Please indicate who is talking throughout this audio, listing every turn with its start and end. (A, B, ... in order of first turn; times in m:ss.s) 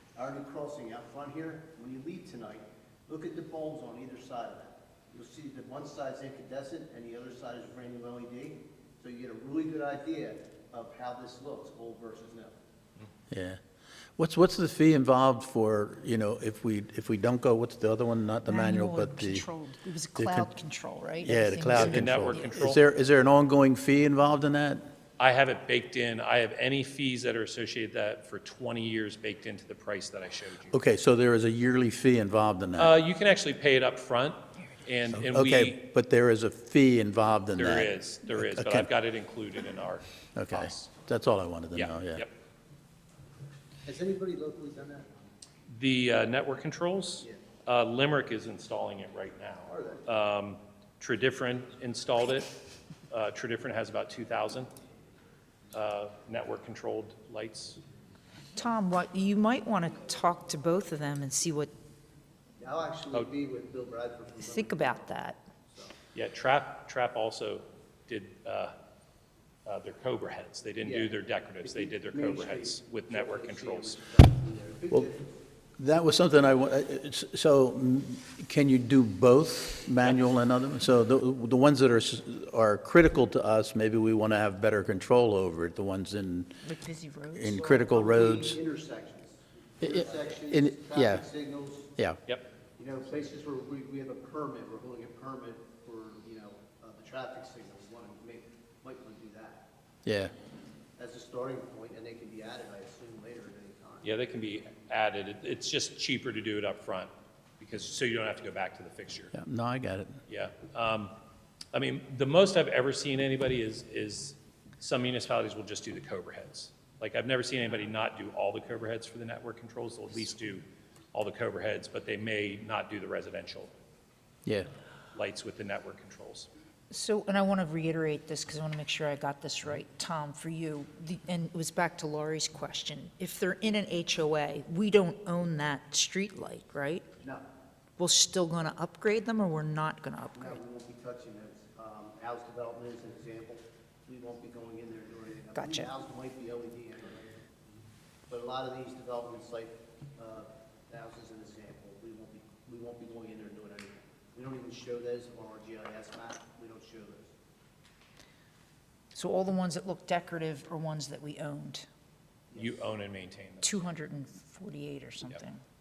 0:00.1-0:12.5 A
0:13.3-0:13.6 B
0:14.2-0:19.4 B
0:18.5-0:22.5 C
0:20.2-0:20.5 B
0:21.2-0:24.8 B
0:21.8-0:22.8 D
0:25.2-0:30.8 D
0:30.7-0:33.0 B
0:32.8-0:35.8 D
0:35.1-0:38.9 B
0:37.5-0:40.9 D
0:40.3-0:42.2 B
0:41.7-0:42.3 D
0:43.8-0:45.2 A
0:45.7-0:52.6 D
0:49.6-0:50.1 A
0:53.1-0:54.7 D
0:55.7-0:57.8 D
0:58.6-1:01.7 C
1:02.6-1:05.0 A
1:04.4-1:05.4 C
1:05.7-1:05.9 A
1:06.1-1:08.7 D
1:09.6-1:14.0 D
1:10.8-1:15.3 A
1:15.8-1:26.6 B
1:26.6-1:27.6 C
1:27.4-1:28.6 B
1:27.6-1:31.9 A
1:29.8-1:31.3 B
1:32.8-1:39.7 A
1:40.0-1:40.3 B
1:41.0-1:44.2 A
1:44.0-1:49.3 D
1:49.3-1:50.2 B
1:50.3-1:51.1 D
1:51.7-2:03.7 D
2:05.1-2:06.5 D
2:06.9-2:17.1 C
2:18.0-2:20.6 C
2:20.3-2:27.5 A
2:25.6-2:25.9 C
2:28.3-2:37.3 A
2:39.1-2:41.9 C
2:42.6-2:43.8 D
2:43.6-2:45.6 C